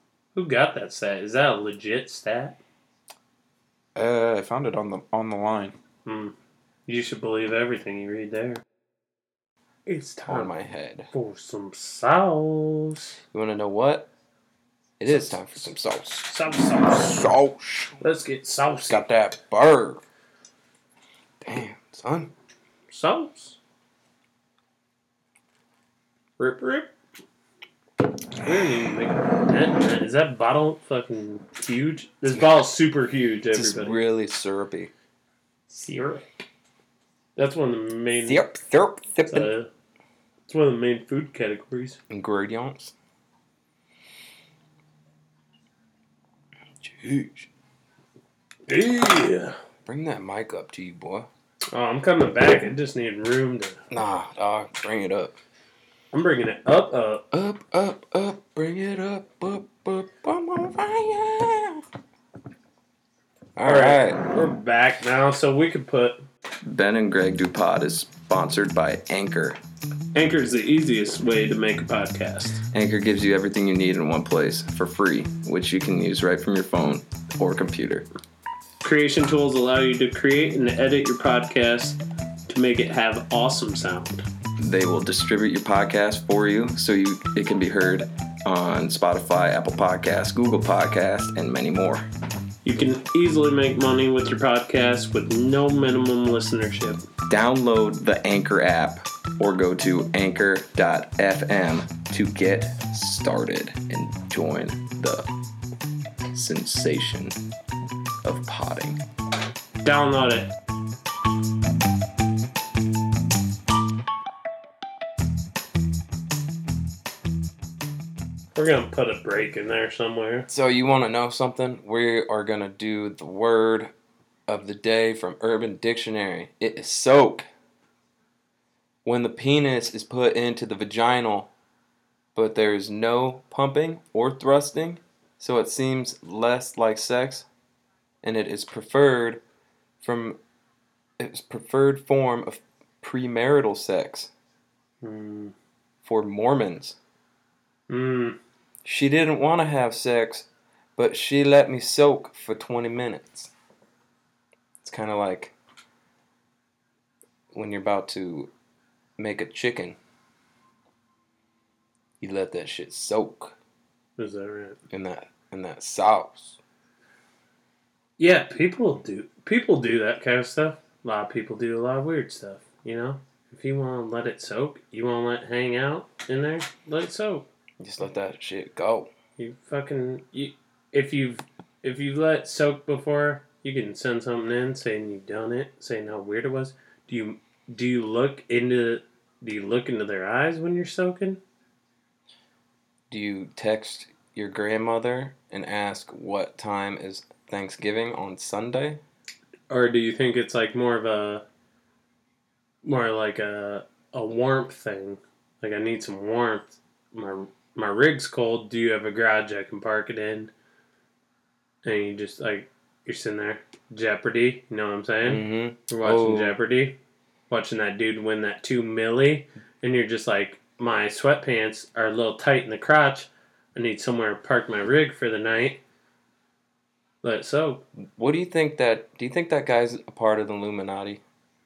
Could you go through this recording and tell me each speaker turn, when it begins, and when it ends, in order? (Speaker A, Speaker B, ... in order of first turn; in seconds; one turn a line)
Speaker A: 0.3-2.6
Speaker B: 4.0-5.8
Speaker A: 6.0-6.3
Speaker A: 6.9-8.6
Speaker A: 9.9-10.5
Speaker B: 10.2-11.1
Speaker A: 11.1-13.2
Speaker B: 13.3-14.1
Speaker B: 15.0-16.3
Speaker A: 15.1-15.4
Speaker A: 16.2-17.3
Speaker B: 16.8-18.0
Speaker A: 18.0-19.0
Speaker B: 18.9-20.0
Speaker B: 21.4-22.3
Speaker A: 22.9-23.6
Speaker A: 26.4-26.9
Speaker A: 28.4-34.0
Speaker B: 33.5-34.9
Speaker A: 35.7-36.4
Speaker A: 37.4-38.4
Speaker B: 38.2-39.5
Speaker A: 39.3-39.7
Speaker A: 40.5-42.0
Speaker B: 42.1-42.9
Speaker B: 46.8-47.5
Speaker A: 48.7-49.6
Speaker B: 49.9-51.3
Speaker A: 51.7-53.8
Speaker B: 53.9-55.4
Speaker A: 56.1-57.2
Speaker B: 57.3-61.8
Speaker B: 63.6-64.2
Speaker A: 63.7-66.2
Speaker B: 66.6-69.6
Speaker A: 70.1-72.6
Speaker B: 72.7-78.1
Speaker A: 78.8-84.3
Speaker B: 84.6-92.0
Speaker A: 92.7-97.1
Speaker B: 97.3-105.3
Speaker B: 106.3-107.4
Speaker B: 108.2-109.0
Speaker A: 109.8-110.5
Speaker A: 118.5-120.5
Speaker B: 120.5-123.9
Speaker B: 124.5-127.5
Speaker B: 129.1-131.5
Speaker B: 132.3-137.5
Speaker B: 138.2-139.4
Speaker B: 140.0-140.4
Speaker B: 141.2-144.3
Speaker A: 145.0-145.6
Speaker B: 146.0-147.0
Speaker A: 147.9-148.4
Speaker B: 148.8-153.5
Speaker B: 154.8-155.6
Speaker B: 157.5-158.5
Speaker B: 159.2-160.0
Speaker B: 162.2-163.6
Speaker A: 164.2-164.8
Speaker B: 164.9-166.6
Speaker A: 168.2-177.5
Speaker B: 177.8-179.1
Speaker A: 179.4-191.4
Speaker B: 193.1-199.0
Speaker A: 199.7-201.4
Speaker A: 202.8-210.5
Speaker A: 211.8-217.0
Speaker B: 215.2-216.6
Speaker A: 217.5-225.8
Speaker A: 227.2-227.8
Speaker B: 228.0-231.2